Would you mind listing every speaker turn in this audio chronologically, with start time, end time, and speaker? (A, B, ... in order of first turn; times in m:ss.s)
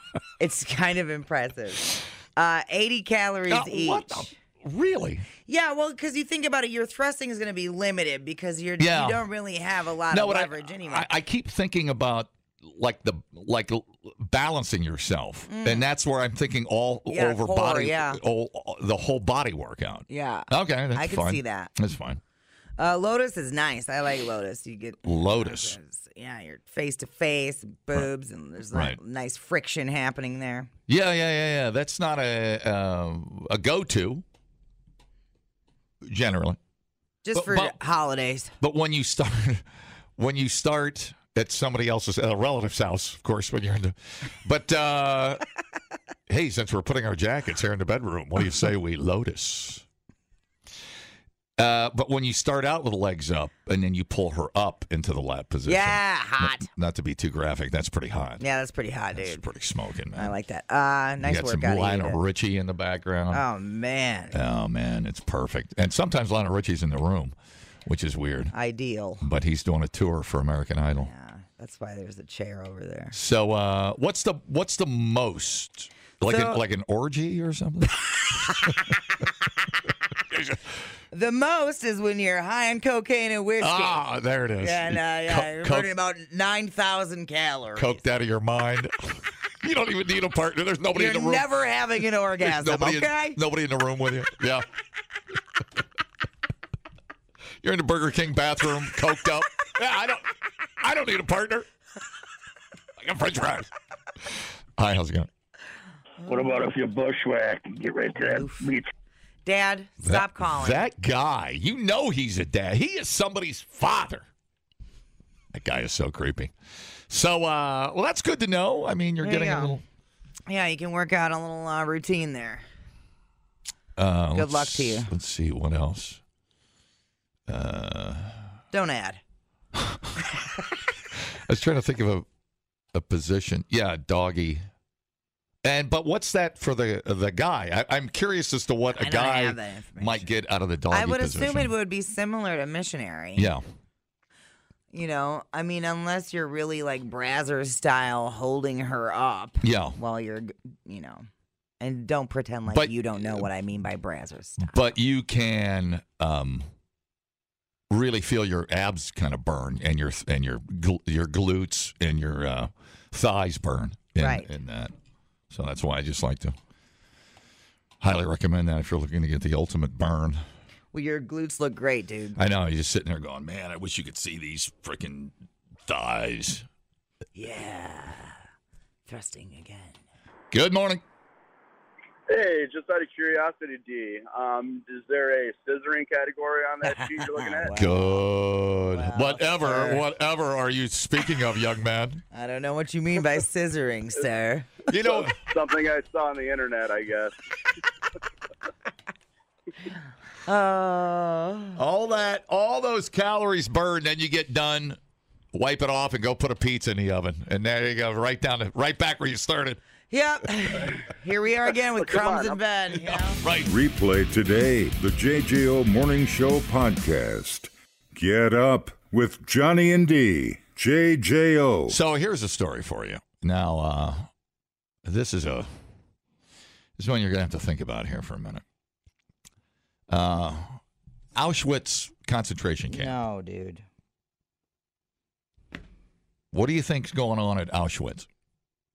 0:00.4-0:04.3 A
0:03.5-0:05.2 B
0:05.5-0:11.1 A
0:08.8-0:09.2 B
0:10.1-0:22.2 B
0:15.5-0:15.9 A
0:17.1-0:18.2 A
0:20.1-0:21.7 A
0:22.8-0:30.7 A
0:25.0-0:25.8 B
0:28.7-0:29.0 B
0:30.9-0:34.2 B
0:36.0-0:36.6 B
0:37.2-0:38.5 A
0:37.3-0:37.8 B
0:38.6-0:39.6 B
0:40.2-0:45.4 B
0:46.3-0:49.8 B
0:51.6-0:58.4 B
0:55.6-0:56.7 A
0:58.4-0:59.4 A
0:59.1-1:00.3 B
1:00.2-1:02.2 A
1:01.2-1:03.4 B
1:03.3-1:04.4 A
1:04.3-1:07.3 B
1:07.8-1:08.5 B
1:08.5-1:09.2 A
1:09.2-1:11.1 B
1:11.0-1:13.2 A
1:13.1-1:18.8 B
1:16.2-1:16.6 A
1:20.3-1:20.6 B
1:21.1-1:24.0 A
1:23.6-1:25.9 B
1:24.6-1:27.8 A
1:27.8-1:31.5 B
1:30.9-1:33.4 A
1:32.4-1:34.6 B
1:37.6-1:41.6 B
1:43.0-1:43.7 B
1:44.8-1:45.3 B
1:46.3-1:48.8 C
1:48.2-1:48.7 A
1:49.4-1:50.8 A
1:50.0-1:54.2 B
1:55.5-1:56.5 B
1:57.1-1:59.8 B
1:59.2-1:59.8 A
2:00.5-2:02.7 A
2:04.0-2:06.2 B
2:04.3-2:05.1 A
2:07.5-2:08.5 B
2:08.7-2:09.2 A
2:09.7-2:10.2 B
2:11.5-2:12.2 B
2:12.9-2:14.6 B
2:15.6-2:21.7 B
2:19.0-2:20.3 A
2:20.9-2:23.5 A
2:23.4-2:23.6 B
2:24.9-2:31.3 A
2:29.6-2:30.0 B
2:31.8-2:34.8 A
2:32.7-2:33.5 B
2:34.6-2:36.7 B
2:37.9-2:44.9 B
2:44.2-2:44.5 A
2:45.5-2:46.5 B
2:48.0-2:50.4 B
2:50.9-2:52.4 A
2:52.4-2:55.3 B
2:55.8-2:56.6 B
2:57.4-2:58.4 A
2:59.1-3:00.0 A
3:00.5-3:01.0 B
3:02.3-3:07.8 D
3:06.8-3:08.2 A
3:07.7-3:12.2 B
3:08.9-3:10.0 A
3:12.3-3:14.7 A
3:14.9-3:15.4 B
3:14.9-3:17.3 D
3:20.4-3:21.8 A
3:21.8-3:25.0 B
3:25.5-3:29.8 B
3:30.1-3:33.4 A
3:33.0-3:33.7 B
3:33.6-3:42.0 E
3:41.9-3:44.3 B
3:45.0-3:45.7 B
3:47.0-3:48.6 B
3:50.1-3:50.8 B
3:51.3-3:53.1 B
3:52.9-3:53.8 A
3:56.5-3:58.3 B